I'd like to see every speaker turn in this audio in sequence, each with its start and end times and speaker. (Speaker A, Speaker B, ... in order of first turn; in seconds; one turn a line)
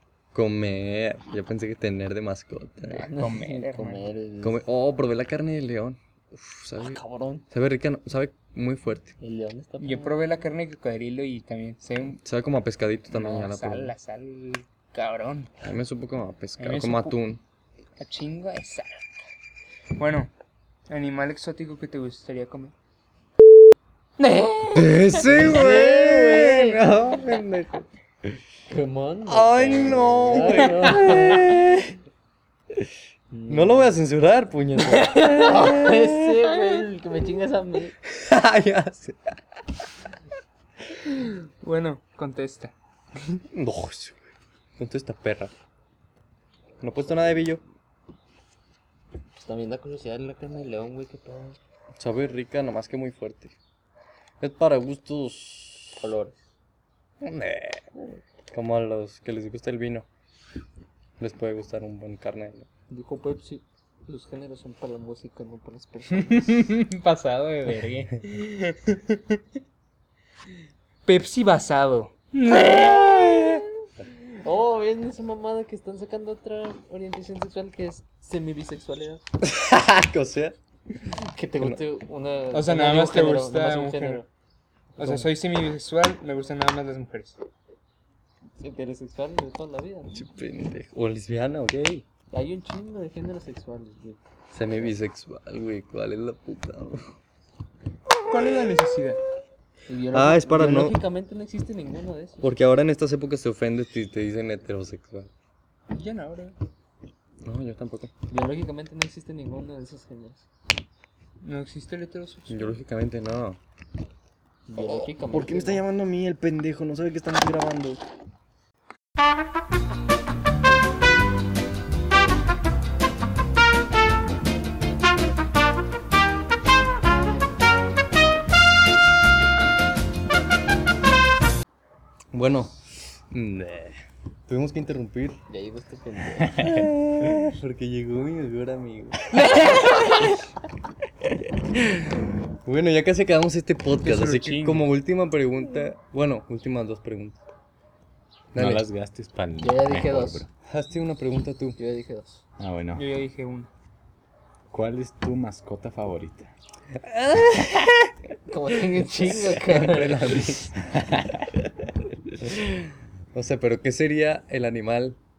Speaker A: 0.3-3.1
Speaker B: 2.9-4.1
Speaker C: 2.9-4.6
Speaker A: 4.4-7.0
Speaker C: 6.8-7.4
Speaker A: 7.5-9.1
Speaker C: 9.2-10.2
Speaker B: 9.8-12.2
Speaker A: 12.2-13.9
Speaker B: 13.1-15.5
Speaker A: 15.6-17.4
Speaker B: 16.6-17.2
Speaker B: 18.0-19.0
Speaker B: 20.0-20.3
Speaker B: 20.9-22.7
Speaker B: 24.2-25.4
Speaker A: 24.7-27.9
Speaker C: 25.3-26.8
Speaker C: 28.7-31.6
Speaker A: 29.3-32.0
Speaker B: 30.5-31.1
Speaker C: 33.3-33.9
Speaker A: 33.5-36.3
Speaker B: 34.8-35.7
Speaker C: 35.2-37.9
Speaker A: 38.0-39.3
Speaker B: 41.1-42.7
Speaker A: 43.5-45.5
Speaker A: 46.8-47.6
Speaker C: 49.4-51.6
Speaker A: 52.0-53.5
Speaker A: 54.4-56.1
Speaker C: 56.0-56.4
Speaker A: 57.2-57.9
Speaker A: 58.5-60.1
Speaker A: 61.2-62.7
Speaker C: 62.9-66.6
Speaker B: 66.1-69.4
Speaker B: 71.0-73.7
Speaker C: 74.4-79.2
Speaker A: 79.4-80.6
Speaker C: 81.2-84.3
Speaker B: 82.5-84.2
Speaker C: 85.0-85.3
Speaker B: 85.0-87.3
Speaker C: 88.6-90.2
Speaker A: 90.1-92.0
Speaker C: 92.3-94.9
Speaker A: 94.5-97.1
Speaker B: 98.2-99.2
Speaker C: 99.9-102.5
Speaker A: 100.1-101.0
Speaker A: 102.4-105.3
Speaker B: 105.9-106.5
Speaker A: 107.4-108.1
Speaker C: 108.3-110.5
Speaker B: 111.4-112.8
Speaker A: 112.5-113.6
Speaker C: 114.7-115.8
Speaker A: 114.8-118.0
Speaker A: 132.3-135.4
Speaker C: 135.5-136.8
Speaker A: 136.6-140.3
Speaker A: 141.2-147.4
Speaker B: 144.0-144.8
Speaker A: 148.5-148.8
Speaker D: 148.5-150.5
Speaker C: 149.6-150.4
Speaker A: 150.7-151.8
Speaker C: 151.8-152.4
Speaker D: 152.6-153.1
Speaker B: 152.9-153.7
Speaker D: 154.7-156.5
Speaker A: 157.0-158.1
Speaker C: 158.5-160.6
Speaker A: 159.2-160.7
Speaker D: 160.7-161.5
Speaker A: 162.4-162.8
Speaker A: 163.3-165.2